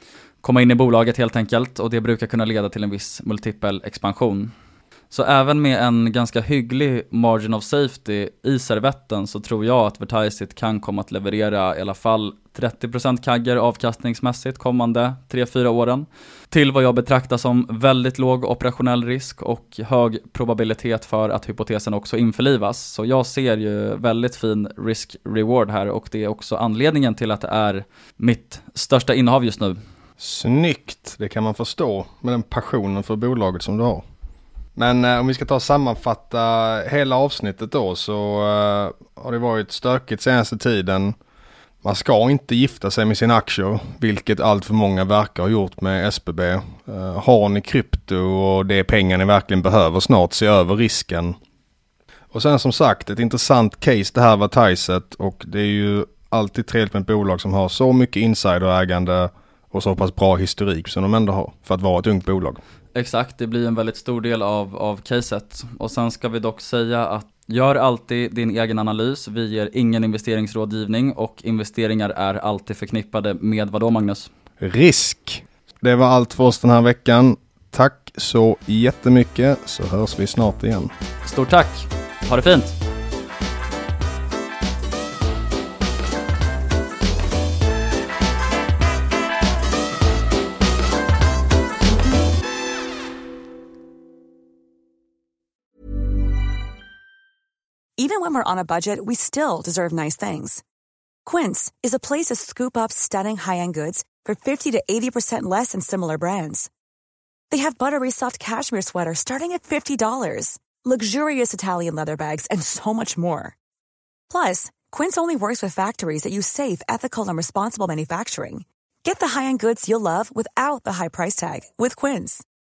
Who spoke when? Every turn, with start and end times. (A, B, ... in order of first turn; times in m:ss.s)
0:00.4-0:04.5 A
0:05.1-0:29.8 A
0:30.2-0:34.0 B
0:34.8-0:41.2 B
0:41.8-0:51.4 B
0:52.3-1:02.6 B
1:03.0-1:14.3 A
1:14.6-1:20.9 B
1:21.2-1:22.8 A
1:38.0-1:40.6 C
1:41.3-1:46.7 C
1:47.5-1:53.6 C
1:54.3-2:02.4 C